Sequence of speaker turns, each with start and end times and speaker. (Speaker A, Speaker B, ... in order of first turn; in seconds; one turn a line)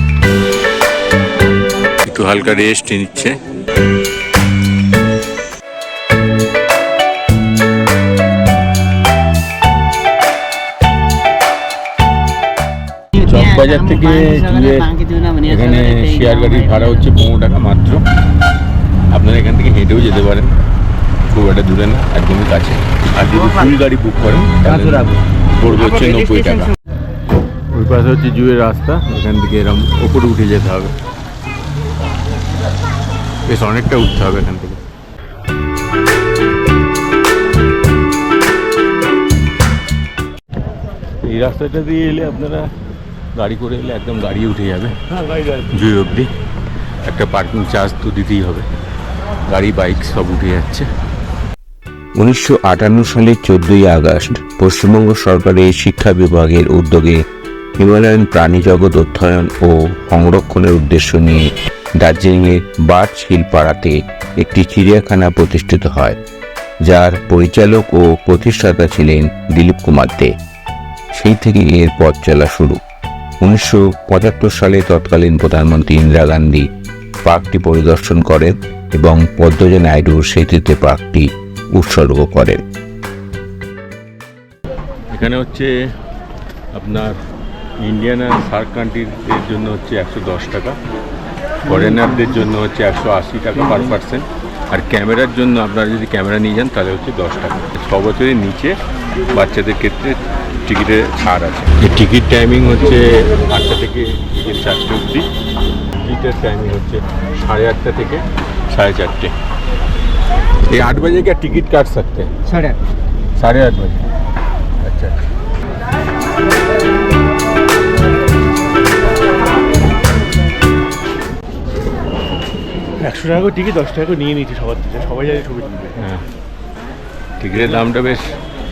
Speaker A: 2.0-3.4
Speaker A: 13.1-18.0
Speaker B: 14.9-15.4
Speaker A: 19.1-20.6
Speaker A: 21.3-26.8
Speaker A: 27.7-30.9
Speaker A: 33.5-34.8
Speaker A: 41.2-42.7
Speaker A: 43.4-45.0
Speaker A: 45.5-46.3
Speaker A: 47.0-48.7
Speaker A: 49.5-50.9
Speaker C: 52.2-57.2
Speaker C: 57.8-66.2
Speaker C: 66.8-70.3
Speaker C: 71.1-72.8
Speaker C: 73.4-76.7
Speaker C: 77.3-82.6
Speaker A: 85.1-85.8
Speaker A: 86.7-87.2
Speaker A: 87.8-90.8
Speaker A: 91.7-98.8
Speaker A: 99.3-105.3
Speaker A: 106.0-109.3
Speaker A: 110.6-112.8
Speaker A: 113.4-114.1
Speaker A: 114.8-115.2
Speaker B: 123.0-125.9
Speaker A: 123.1-124.2
Speaker A: 125.9-126.2
Speaker A: 127.4-128.3